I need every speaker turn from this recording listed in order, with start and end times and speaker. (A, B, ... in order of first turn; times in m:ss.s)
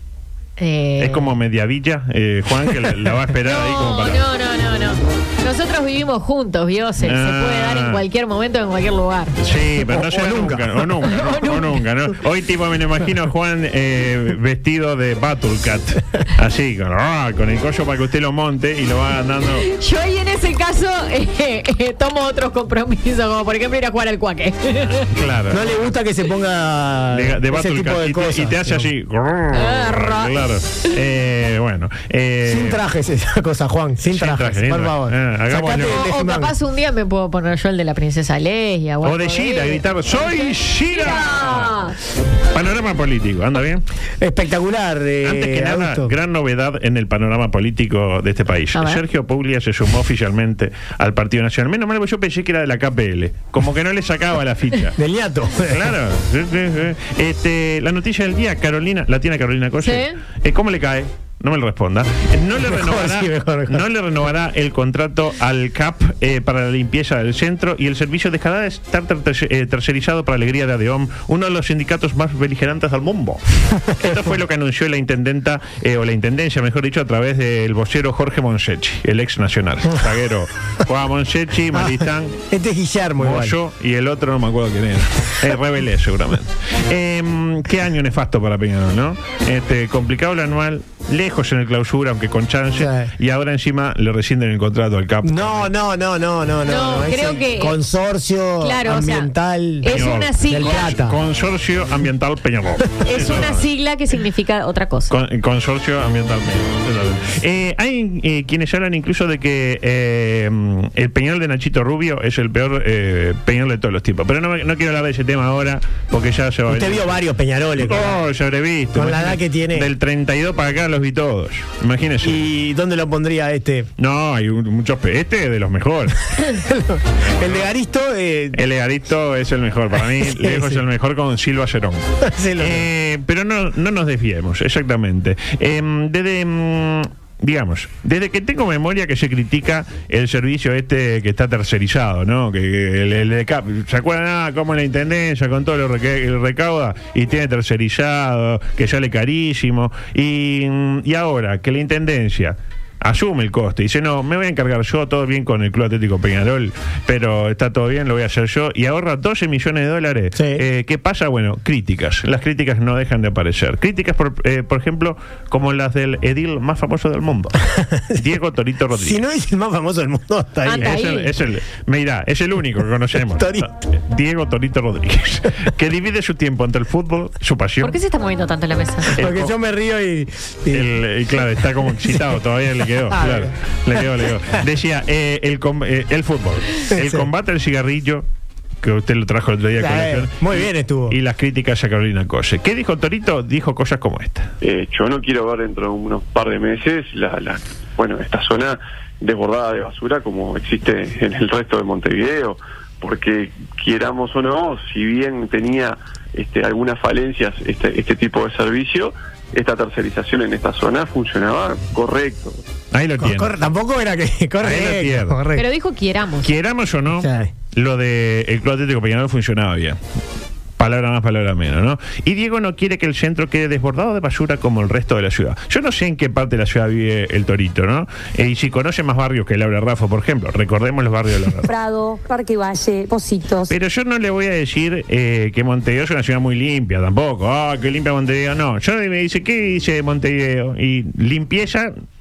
0:00.6-0:01.3 A
0:01.0-0:04.2 B
0:03.4-0:09.3 A
0:07.0-0:08.0 B
0:09.4-0:19.6 B
0:09.8-0:10.9 C
0:11.1-0:11.6 A
0:19.7-0:25.1 A
0:25.0-0:25.8 B
0:25.5-0:28.9 C
0:27.1-0:32.8 B
0:29.5-0:30.4 A
0:32.4-0:36.5 C
0:34.1-0:36.1 B
0:35.8-0:41.9 A
0:39.0-0:41.8 B
0:42.5-0:43.8 B
0:44.2-0:46.1 C
0:45.2-0:55.0 B
0:48.7-0:49.0 A
0:55.0-0:55.9 C
0:55.7-1:13.4 B
0:59.8-1:00.2 A
1:02.6-1:03.8 C
1:14.0-1:22.4 B
1:21.7-1:23.6 C
1:23.2-1:35.7 B
1:32.8-1:33.1 C
1:35.2-1:41.2 C
1:36.7-1:37.8 A
1:38.6-1:39.3 A
1:39.8-1:40.8 A
1:39.9-1:43.6 B
1:43.0-1:45.1 A
1:45.1-1:57.2 B
1:56.7-1:58.2 C
1:57.8-2:02.4 B
1:58.9-1:59.9 C
2:02.2-2:03.9 C
2:04.0-2:06.2 B
2:06.5-2:08.6 C
2:08.5-2:12.0 B
2:10.2-2:10.8 C
2:12.2-2:12.9 C
2:12.6-2:49.2 B
2:40.4-2:40.6 C
2:47.7-2:48.2 C
2:49.0-2:51.0 C
2:50.6-2:51.3 A
2:50.8-2:58.0 B
2:53.3-2:53.7 C
2:57.8-2:59.2 A
2:59.1-3:00.9 C
2:59.1-2:59.5 B
3:00.7-3:08.2 B
3:03.1-3:04.0 C
3:06.9-3:07.3 C
3:08.8-3:14.5 B
3:09.8-3:11.2 C
3:14.6-3:32.6 D
3:32.9-3:33.5 B
3:33.2-3:35.6 C
3:34.6-3:35.4 B
3:35.5-3:36.5 A
3:36.4-3:40.0 B
3:37.2-3:37.5 C
3:40.8-3:51.7 B
3:51.6-3:53.7 E
3:53.7-4:01.9 B